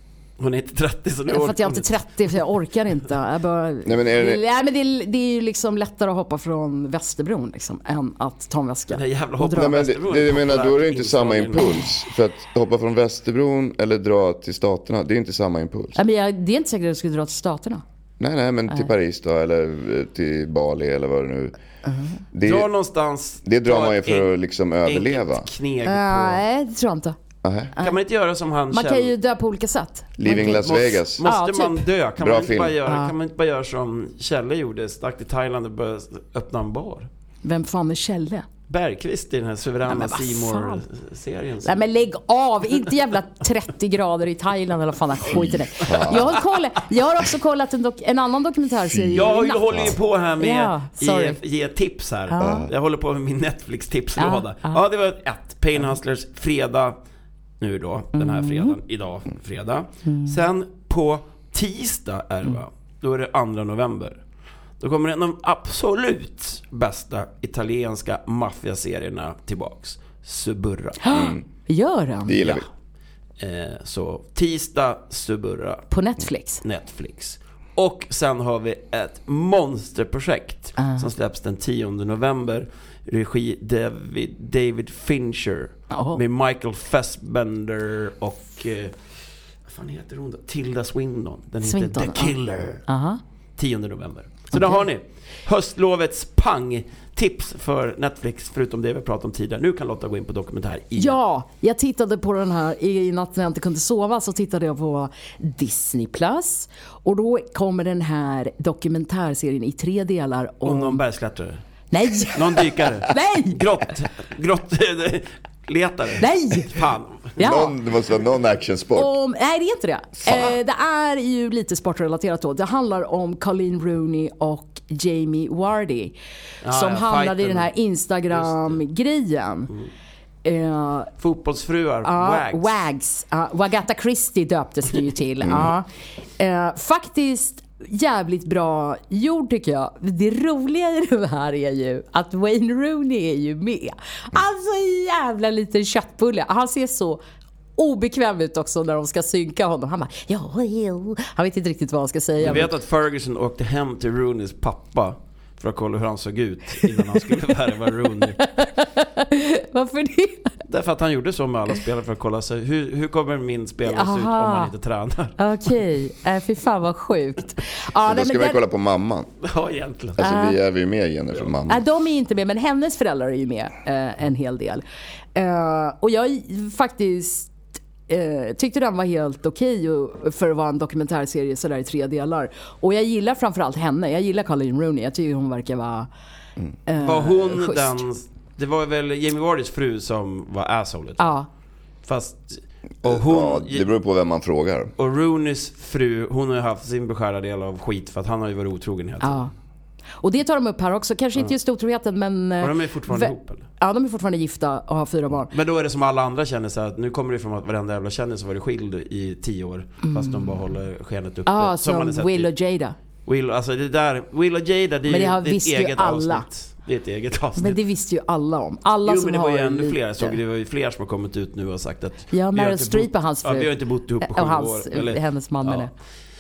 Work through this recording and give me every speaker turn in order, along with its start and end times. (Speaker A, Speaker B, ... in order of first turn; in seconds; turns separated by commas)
Speaker A: 0.4-1.9, Speaker B: 1.3-9.8, Speaker C: 3.9-4.4, Speaker A: 8.9-11.8, Speaker C: 9.6-16.0, Speaker B: 16.0-17.8, Speaker C: 18.2-21.6, Speaker B: 21.9-22.2, Speaker C: 22.3-22.7, Speaker A: 22.4-24.3, Speaker C: 23.4-25.5, Speaker A: 24.8-26.4, Speaker B: 25.9-27.1, Speaker C: 27.4-27.7, Speaker A: 27.8-29.1, Speaker B: 28.7-30.7, Speaker C: 30.2-31.2, Speaker A: 30.3-37.1, Speaker B: 31.2-31.9, Speaker C: 32.2-32.8, Speaker B: 32.9-33.1, Speaker B: 37.4-38.5, Speaker A: 38.7-41.9, Speaker B: 39.9-40.8, Speaker B: 41.6-51.4, Speaker C: 45.3-46.4, Speaker C: 48.9-49.9, Speaker A: 49.1-57.0, Speaker B: 52.3-52.7, Speaker C: 52.4-52.7, Speaker B: 54.2-54.8, Speaker A: 57.6-64.2, Speaker B: 58.1-58.8, Speaker B: 60.1-60.4, Speaker A: 64.8-71.0, Speaker B: 71.0-72.6, Speaker C: 71.1-71.4, Speaker C: 72.3-72.7, Speaker A: 73.4-75.9, Speaker B: 75.9-76.6, Speaker A: 76.6-89.0, Speaker B: 80.8-81.1, Speaker B: 85.9-86.2, Speaker A: 89.7-92.8, Speaker B: 91.7-93.2, Speaker A: 93.6-101.2, Speaker B: 94.5-94.8, Speaker B: 101.0-111.0, Speaker A: 110.7-111.6, Speaker B: 111.9-113.6, Speaker A: 112.2-117.4, Speaker B: 116.2-116.8, Speaker B: 117.4-117.8, Speaker C: 117.4-119.1, Speaker B: 119.0-129.7, Speaker C: 120.2-120.5, Speaker A: 126.6-127.7, Speaker A: 128.3-128.8, Speaker B: 130.4-131.1, Speaker A: 131.2-132.9, Speaker B: 132.0-135.9, Speaker B: 136.4-147.2, Speaker B: 147.8-152.7, Speaker A: 152.4-158.4, Speaker B: 158.4-160.5, Speaker A: 160.7-165.4, Speaker B: 163.9-164.7, Speaker B: 165.4-168.6, Speaker C: 168.0-169.3, Speaker A: 169.4-170.2, Speaker C: 170.2-171.8, Speaker B: 170.2-170.6, Speaker B: 171.7-174.8, Speaker B: 175.3-177.5, Speaker B: 178.1-186.1, Speaker B: 186.9-188.0, Speaker A: 187.0-191.3, Speaker B: 191.2-191.5, Speaker A: 192.0-193.9, Speaker C: 193.0-194.9, Speaker A: 195.0-199.4, Speaker B: 199.2-199.5, Speaker B: 200.2-205.5, Speaker A: 202.6-203.7, Speaker A: 205.5-212.5, Speaker B: 210.1-210.5, Speaker B: 211.5-213.0, Speaker A: 213.3-217.8, Speaker B: 215.1-216.5, Speaker B: 217.6-220.4, Speaker A: 219.1-225.9, Speaker B: 222.3-225.9